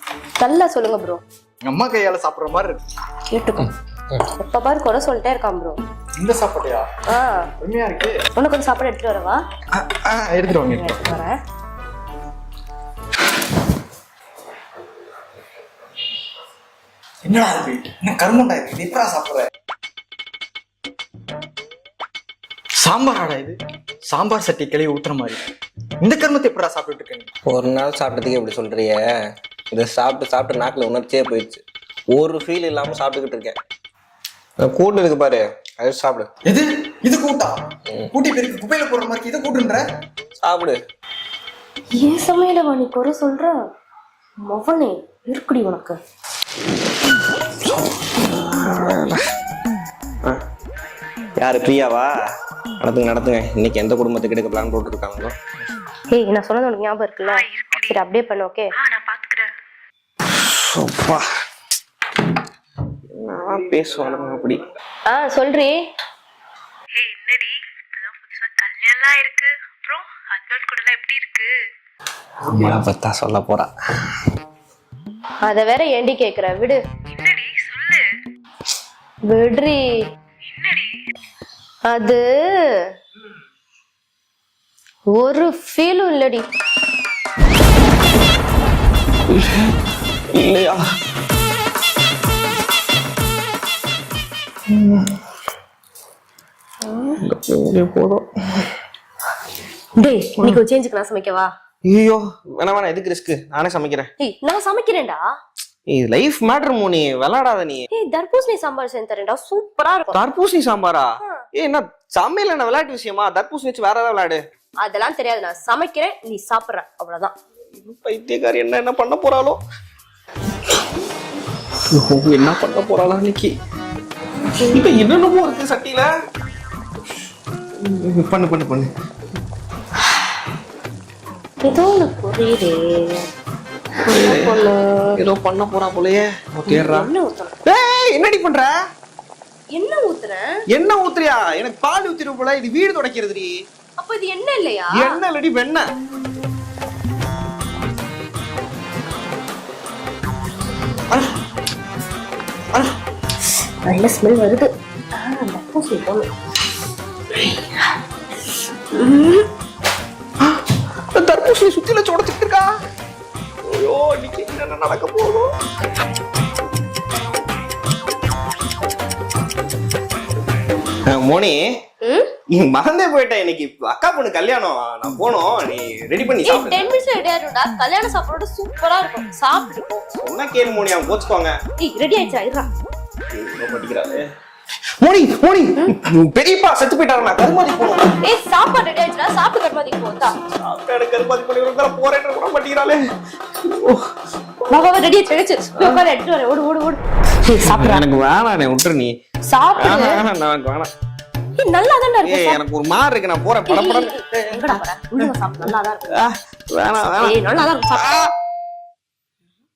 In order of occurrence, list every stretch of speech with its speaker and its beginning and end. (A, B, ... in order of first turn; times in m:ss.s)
0:00.4-0:01.2 A
0:01.6-0:02.8 B
0:03.3-0:03.7 A
0:04.2-0:05.8 A
0:06.2-0:06.8 B
0:07.1-0:07.5 A
0:07.6-0:08.2 B
0:08.3-0:09.4 A
0:09.7-0:11.0 B
0:10.6-0:11.4 A
0:17.2-0:19.4 B
0:22.8-0:25.4 B
0:26.0-0:27.3 B
0:27.4-0:29.0 C
0:29.7-0:33.6 C
0:34.6-0:36.3 C
0:36.5-0:37.6 B
0:38.1-0:39.8 B
0:40.4-0:40.8 C
0:42.0-0:43.6 A
0:44.4-0:46.0 A
0:47.6-0:49.2 C
0:51.4-0:52.2 C
0:52.8-0:55.3 C
0:56.1-0:58.7 A
0:57.3-0:58.0 D
0:58.7-0:59.5 D
1:00.2-1:01.2 C
1:03.1-1:04.6 C
1:05.1-1:05.7 A
1:07.0-1:11.5 D
1:12.4-1:13.7 C
1:15.4-1:16.8 A
1:17.1-1:18.0 D
1:19.3-1:19.9 A
1:20.5-1:20.9 D
1:21.8-1:22.3 A
1:25.1-1:26.4 A
1:29.3-1:29.7 C
1:30.3-1:30.8 C
1:34.7-1:35.1 C
1:37.2-1:38.7 C
1:40.0-1:41.5 A
1:41.8-1:44.1 C
1:44.2-1:45.2 A
1:45.9-1:47.8 C
1:47.9-1:50.1 A
1:50.1-1:54.4 C
1:54.8-1:57.3 A
1:57.8-1:59.6 C
2:01.9-2:03.5 C
2:04.5-2:04.8 A
2:04.7-2:06.1 C
2:07.8-2:08.9 C
2:11.6-2:13.3 A
2:14.0-2:17.1 C
2:14.1-2:15.2 A
2:16.7-2:17.6 A
2:17.6-2:18.7 C
2:19.7-2:20.5 A
2:20.7-2:23.5 C
2:24.0-2:25.1 A
2:24.9-2:25.9 C
2:33.8-2:36.3 A
2:37.3-2:37.9 A
2:38.9-2:39.5 A
2:41.1-2:42.7 C
2:43.6-2:45.5 C
2:51.1-2:51.6 C
2:52.0-2:52.3 A
2:52.5-2:56.9 C
2:56.4-3:00.0 A
3:00.2-3:01.5 C
3:01.8-3:02.7 A
3:03.3-3:04.2 C
3:05.0-3:08.1 C
3:08.2-3:10.3 A
3:10.6-3:13.0 C
3:13.7-3:14.0 C
3:14.7-3:17.0 A
3:17.5-3:19.1 C
3:17.5-3:18.0 A
3:19.5-3:20.2 A
3:19.8-3:20.9 C
3:21.6-3:22.6 A
3:22.2-3:25.3 C
3:23.7-3:26.2 A
3:26.1-3:27.4 C
3:27.2-3:28.2 A
3:28.0-3:28.3 C